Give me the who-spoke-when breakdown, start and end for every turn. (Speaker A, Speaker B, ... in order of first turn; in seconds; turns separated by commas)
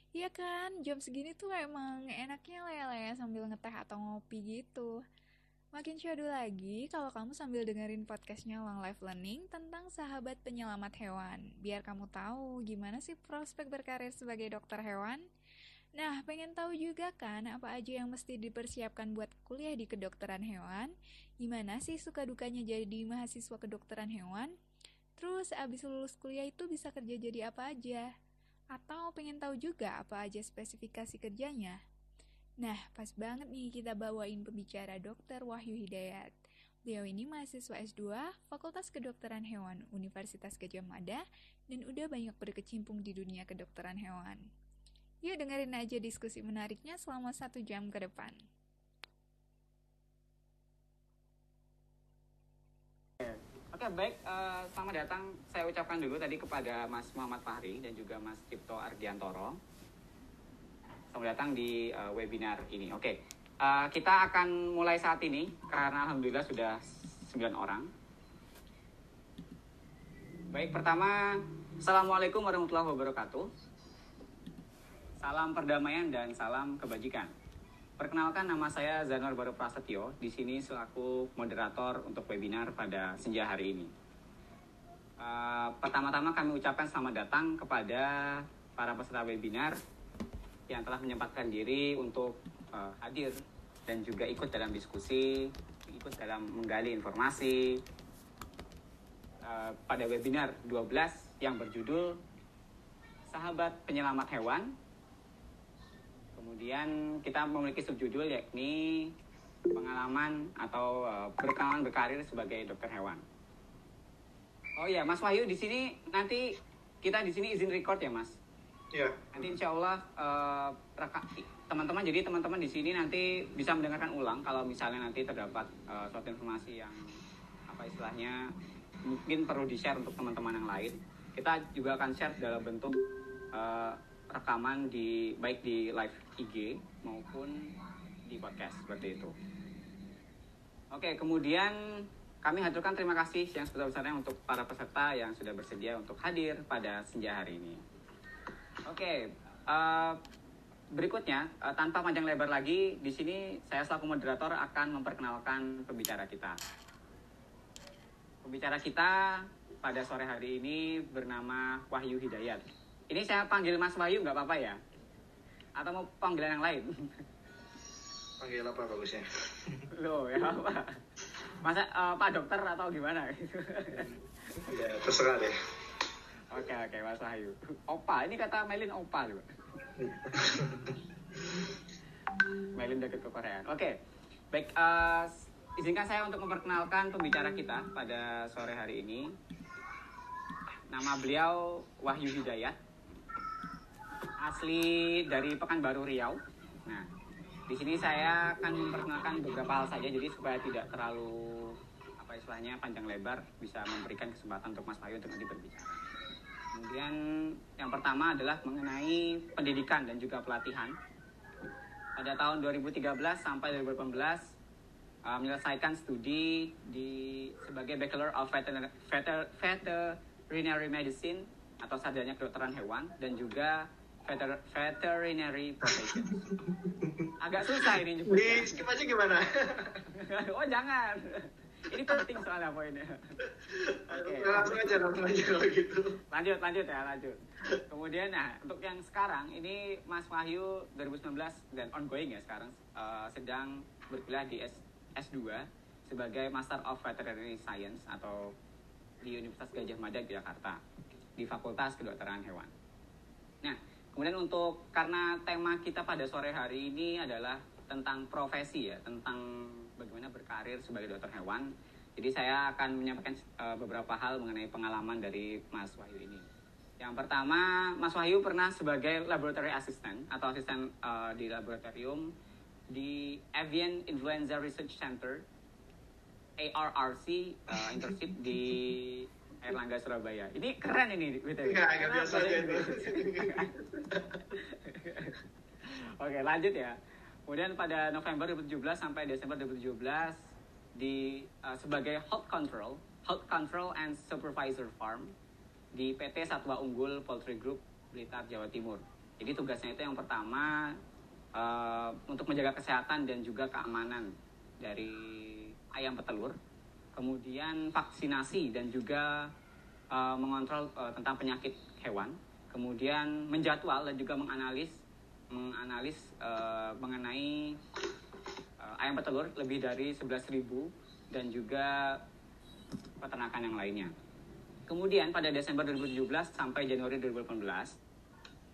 Speaker A: 0.1-4.9, Speaker A: 5.7-15.2, Speaker A: 16.0-20.9, Speaker A: 21.4-24.5, Speaker A: 25.2-28.1, Speaker A: 28.7-31.8, Speaker A: 32.6-36.3, Speaker A: 36.9-44.4, Speaker A: 45.2-48.4, Speaker B: 53.2-59.6, Speaker B: 61.1-67.9, Speaker B: 70.5-73.5, Speaker B: 75.2-77.3, Speaker B: 78.0-83.9, Speaker B: 85.2-89.8, Speaker B: 90.7-93.4, Speaker B: 93.9-97.8, Speaker B: 99.4-102.2, Speaker B: 103.3-104.8, Speaker B: 106.4-109.1, Speaker B: 109.7-113.2, Speaker B: 114.8-118.4, Speaker C: 118.9-119.5, Speaker B: 119.3-127.1, Speaker B: 127.7-128.4, Speaker B: 129.1-133.0, Speaker B: 133.5-137.7, Speaker B: 138.3-139.3, Speaker B: 140.9-147.8, Speaker B: 148.8-150.2, Speaker B: 150.9-156.6, Speaker B: 158.4-164.8, Speaker B: 165.8-167.1, Speaker C: 168.4-169.9, Speaker B: 169.9-174.1, Speaker C: 174.7-175.5, Speaker B: 176.5-179.5, Speaker C: 180.0-181.7, Speaker B: 182.7-183.9, Speaker B: 184.5-189.3, Speaker B: 190.9-192.8, Speaker B: 194.4-197.1, Speaker B: 197.7-206.0, Speaker B: 206.7-207.2, Speaker B: 207.8-210.9, Speaker B: 212.2-214.5, Speaker B: 215.2-226.3, Speaker C: 225.8-230.0, Speaker B: 227.4-228.8, Speaker B: 230.1-233.4, Speaker C: 233.4-236.2, Speaker B: 234.1-235.0, Speaker B: 236.3-248.5, Speaker B: 249.2-250.8, Speaker B: 251.4-252.7, Speaker B: 253.6-266.5, Speaker B: 267.0-272.3, Speaker B: 272.9-275.4, Speaker B: 276.6-283.7, Speaker C: 277.7-278.2, Speaker C: 281.6-284.4, Speaker B: 284.5-287.0, Speaker B: 287.5-290.4, Speaker B: 291.0-295.3, Speaker B: 295.9-300.9, Speaker B: 301.6-306.6, Speaker B: 307.1-309.5, Speaker B: 310.1-315.0, Speaker B: 315.5-317.8, Speaker B: 318.8-322.2, Speaker B: 323.2-324.1, Speaker B: 324.9-328.0